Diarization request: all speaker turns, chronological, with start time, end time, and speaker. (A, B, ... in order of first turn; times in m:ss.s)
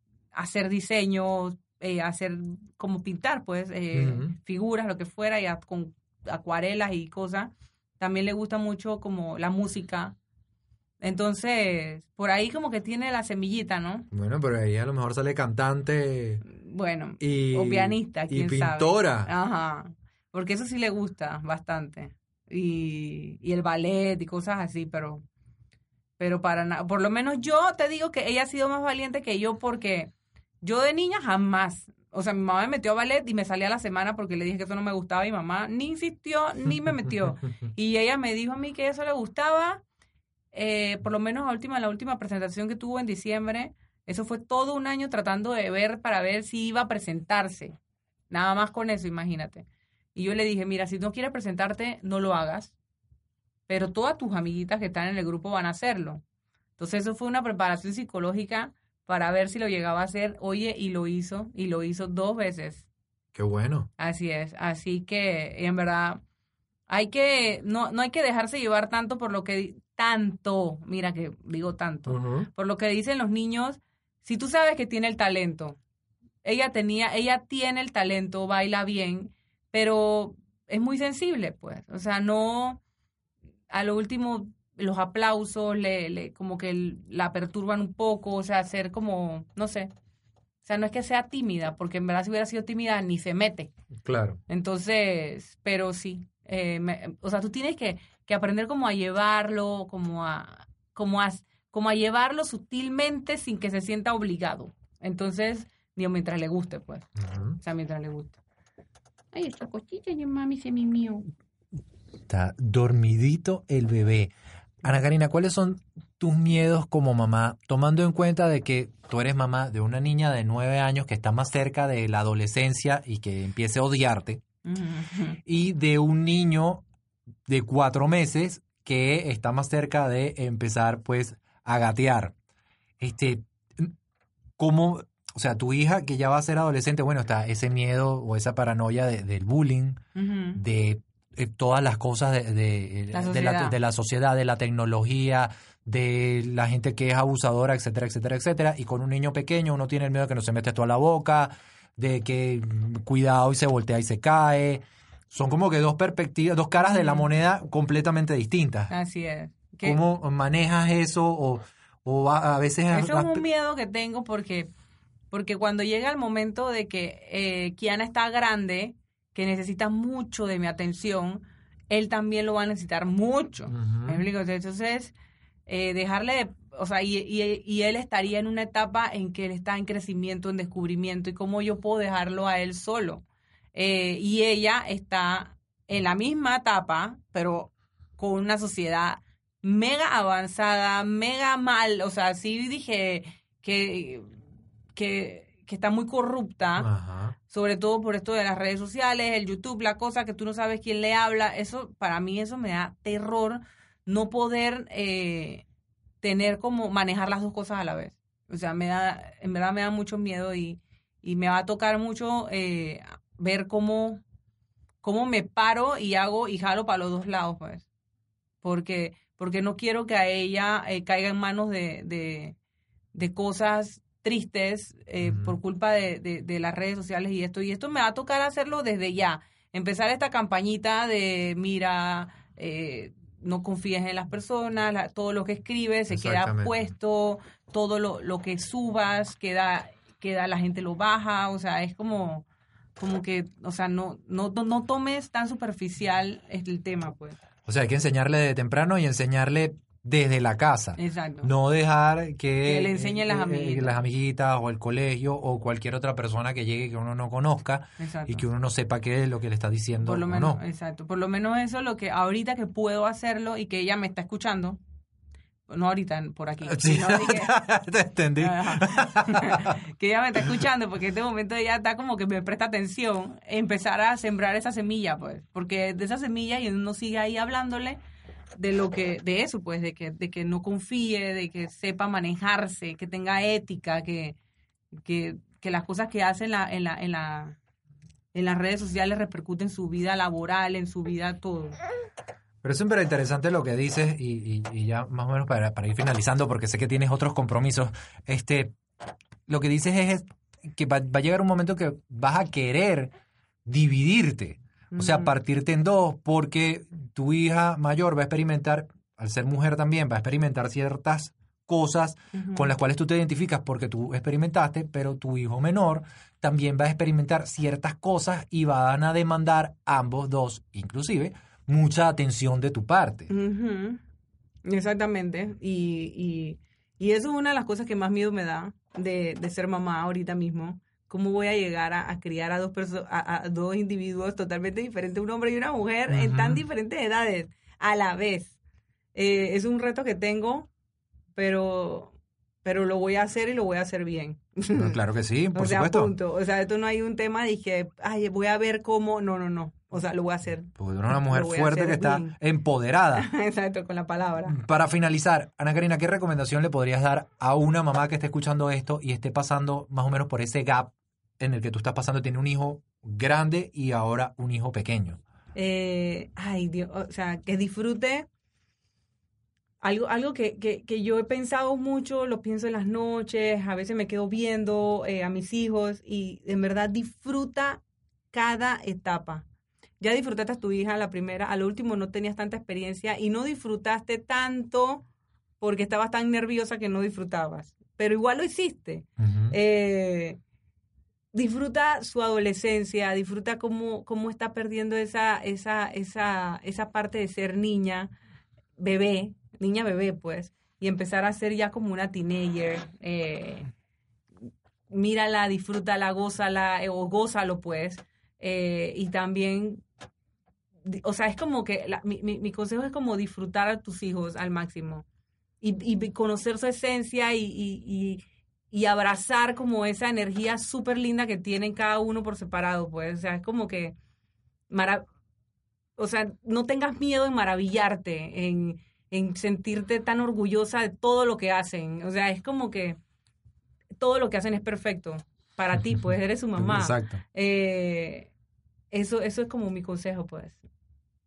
0:00.3-0:10.2 A
0:03.9-0:04.3 B
0:11.0-0:14.1 A
0:14.1-0:16.4 B
0:16.4-0:25.2 A
0:17.2-0:19.3 B
0:26.2-0:39.8 A
0:40.5-0:47.8 A
0:48.3-0:52.7 A
0:53.7-0:56.2 A
0:56.8-1:02.9 A
1:03.3-1:03.9 B
1:04.0-1:06.2 A
1:06.9-1:15.8 A
1:12.1-1:12.5 B
1:16.4-1:22.8 A
1:23.7-1:29.9 A
1:30.6-1:33.7 A
1:34.0-1:34.4 B
1:34.5-1:47.1 A
1:47.2-1:47.6 B
1:47.6-1:48.4 A
1:49.3-1:51.3 A
1:52.3-2:04.4 B
2:04.6-2:05.4 A
2:05.4-2:06.8 B
2:07.5-2:12.3 B
2:13.0-2:13.9 B
2:14.6-2:20.0 B
2:20.1-2:20.6 A
2:20.5-2:38.9 B
2:23.1-2:23.8 A
2:36.8-2:37.2 A
2:38.9-2:40.0 A
2:39.8-2:43.4 B
2:42.9-2:44.7 A
2:45.3-2:55.1 A
2:53.7-2:54.2 B
2:55.7-3:14.3 A
3:14.9-3:16.9 A
3:16.8-3:17.4 B
3:17.5-3:25.6 A
3:26.2-3:34.2 A
3:35.0-3:37.8 A
3:38.6-3:42.6 A
3:43.1-4:02.4 A
3:45.2-3:45.5 B
3:56.1-3:56.8 B
4:03.0-4:07.4 A
4:07.6-4:20.6 B
4:11.0-4:11.5 A
4:12.6-4:14.0 A
4:18.0-4:18.4 A
4:20.0-4:24.8 A
4:25.7-4:27.6 A
4:26.7-4:29.8 B
4:28.4-4:38.0 A
4:38.6-4:44.4 A
4:44.9-4:47.6 A
4:48.3-4:51.8 A
4:52.6-4:58.8 B
4:59.5-5:03.1 B
5:03.6-5:23.3 B
5:04.9-5:05.4 A
5:12.3-5:12.7 A
5:23.3-5:24.0 A
5:24.6-5:38.5 A
5:36.1-5:36.6 B
5:39.1-5:40.7 A
5:41.3-5:42.1 A
5:42.6-5:45.0 A
5:44.7-5:46.1 B
5:45.5-5:52.3 A
5:50.8-5:53.3 B
5:53.1-5:54.6 A
5:54.5-6:05.2 B
6:05.5-6:08.3 A
6:09.8-6:19.4 A
6:20.0-6:25.0 A
6:25.6-6:30.4 A
6:29.2-6:29.6 B
6:31.3-6:38.1 A
6:38.8-6:43.7 A
6:44.9-6:49.8 A
6:50.8-6:55.0 A
6:55.6-7:04.0 A
7:04.7-7:05.0 A
7:06.0-7:13.0 A
7:14.0-7:18.3 A
7:16.6-7:17.2 B
7:18.9-7:20.6 A